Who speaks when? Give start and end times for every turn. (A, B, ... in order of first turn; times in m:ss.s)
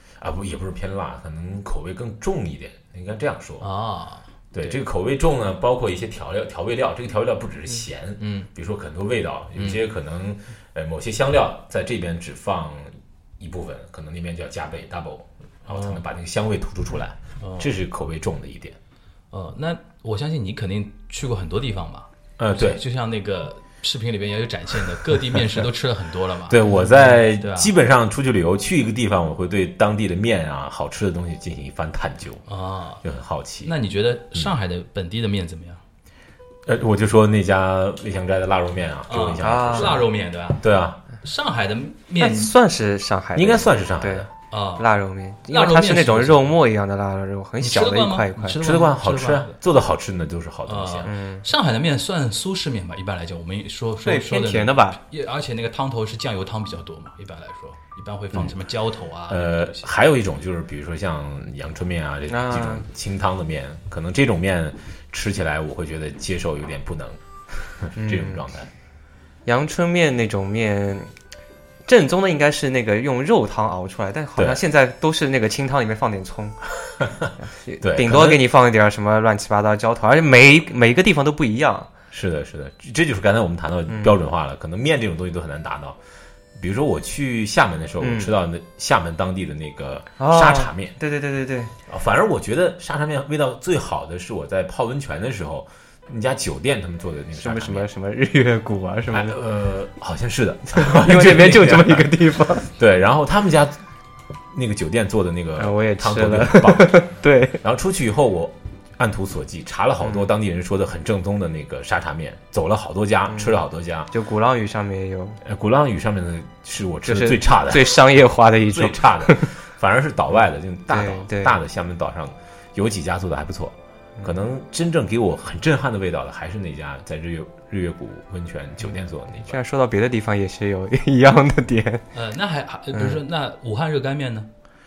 0:00.2-0:03.6 A
0:03.6-0:04.7 B
0:04.5-0:18.8 A
0:08.2-0:08.5 B
0:15.7-0:16.0 B
0:17.4-0:17.7 B
0:19.3-0:27.7 B
0:22.4-0:22.8 A
0:26.5-0:32.4 A
0:32.5-0:33.0 B
0:33.0-0:33.7 A
0:33.6-0:35.8 B
0:36.6-0:40.0 A
0:39.1-0:40.6 B
0:39.4-0:40.0 C
0:40.6-0:41.0 A
0:41.2-0:42.5 B
0:42.2-0:44.3 C
0:43.4-0:44.3 A
0:44.5-0:44.9 B
0:44.8-0:48.6 C
0:45.5-0:46.6 B
0:47.6-0:49.6 B
0:48.6-0:51.1 A
0:50.6-0:59.9 B
0:51.0-0:51.4 C
0:54.0-0:55.0 C
0:59.3-1:08.7 A
1:02.3-1:02.8 C
1:08.0-1:08.4 C
1:09.4-1:11.1 C
1:11.9-1:16.6 C
1:14.4-1:14.6 A
1:17.0-1:18.4 A
1:17.6-1:21.9 C
1:22.1-1:26.0 A
1:23.9-1:24.1 C
1:26.5-1:30.9 A
1:28.0-1:28.3 C
1:30.2-1:31.7 C
1:31.9-1:37.9 A
1:37.4-1:39.4 C
1:39.1-1:43.8 A
1:40.7-1:42.7 C
1:44.5-1:54.1 A
1:45.6-1:47.6 C
1:53.3-1:53.6 C
1:54.1-1:55.4 C
1:55.4-1:58.0 A
1:57.0-1:59.5 C
1:58.7-2:09.6 A
2:00.9-2:01.6 C
2:09.4-2:12.0 C
2:12.1-2:14.5 B
2:12.9-2:13.2 C